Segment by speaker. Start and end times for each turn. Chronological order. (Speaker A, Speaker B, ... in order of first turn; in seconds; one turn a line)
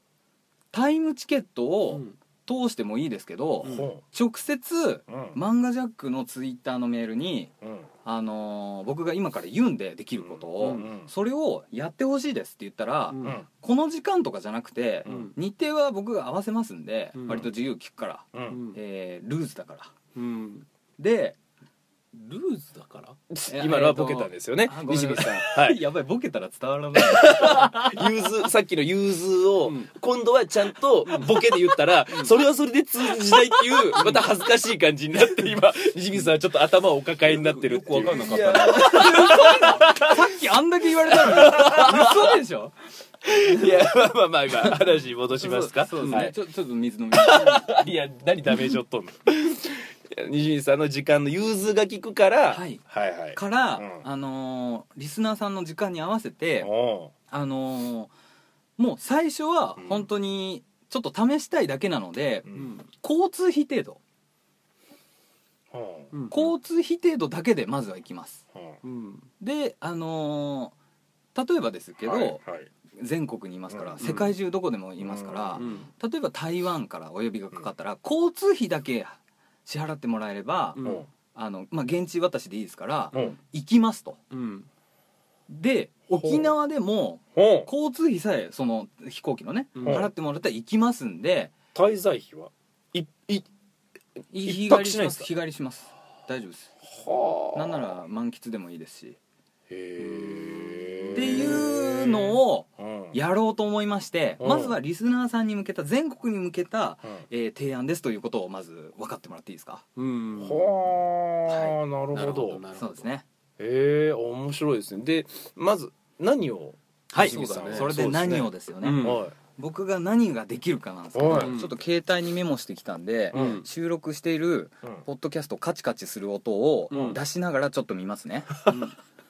Speaker A: 0.7-7.5
Speaker B: 1.9-2.1
Speaker C: 3.6-4.0
Speaker C: 5.1-5.4
Speaker C: 7.6-7.9
Speaker A: 8.1-19.9
Speaker C: 10.2-11.1
Speaker B: 10.6-10.9
Speaker B: 13.1-13.4
Speaker C: 15.1-15.3
Speaker B: 15.1-15.3
Speaker B: 17.1-17.5
Speaker C: 18.3-18.6
Speaker B: 18.5-18.8
Speaker B: 20.1-20.6
Speaker A: 21.0-21.4
Speaker B: 22.1-23.2
Speaker C: 23.3-25.8
Speaker A: 23.5-28.1
Speaker C: 26.9-40.4
Speaker B: 29.6-29.9
Speaker B: 31.1-31.4
Speaker B: 32.1-32.3
Speaker B: 33.9-34.2
Speaker B: 37.3-39.4
Speaker A: 38.4-42.7
Speaker C: 41.1-42.4
Speaker C: 43.2-46.3
Speaker A: 43.3-43.8
Speaker A: 45.4-47.8
Speaker B: 46.0-46.3
Speaker C: 47.1-54.0
Speaker A: 52.5-52.8
Speaker A: 53.3-56.7
Speaker C: 56.6-57.1
Speaker A: 57.3-58.1
Speaker A: 58.8-64.0
Speaker C: 59.8-60.1
Speaker C: 62.5-62.7
Speaker B: 62.5-62.8
Speaker C: 65.7-66.1
Speaker B: 66.1-66.5
Speaker A: 66.3-68.4
Speaker C: 68.5-68.8
Speaker B: 68.8-69.3
Speaker A: 69.4-70.7
Speaker A: 71.3-72.4
Speaker C: 72.0-72.7
Speaker A: 73.0-80.8
Speaker C: 73.7-74.2
Speaker B: 74.0-74.3
Speaker C: 75.0-75.8
Speaker B: 75.6-75.9
Speaker B: 80.8-81.1
Speaker C: 80.8-81.1
Speaker A: 81.3-84.2
Speaker B: 84.3-84.7
Speaker A: 85.5-91.5
Speaker C: 86.2-86.5
Speaker C: 87.3-87.7
Speaker B: 89.8-90.1
Speaker C: 89.8-90.1
Speaker C: 91.7-93.5
Speaker A: 94.3-96.7
Speaker C: 94.4-95.3
Speaker C: 96.8-97.9
Speaker A: 97.5-99.2
Speaker C: 99.7-103.2
Speaker B: 100.1-100.5
Speaker A: 101.1-109.8
Speaker C: 104.4-104.8
Speaker B: 110.0-110.8
Speaker C: 110.4-112.6
Speaker A: 111.5-111.7
Speaker B: 112.1-113.1
Speaker A: 112.8-113.2
Speaker C: 113.6-119.3
Speaker A: 117.1-128.6
Speaker B: 117.2-117.9
Speaker B: 118.8-119.2
Speaker C: 121.1-121.5
Speaker B: 121.3-121.7
Speaker B: 123.3-123.6
Speaker C: 123.3-123.6
Speaker B: 126.9-127.2
Speaker B: 128.7-128.9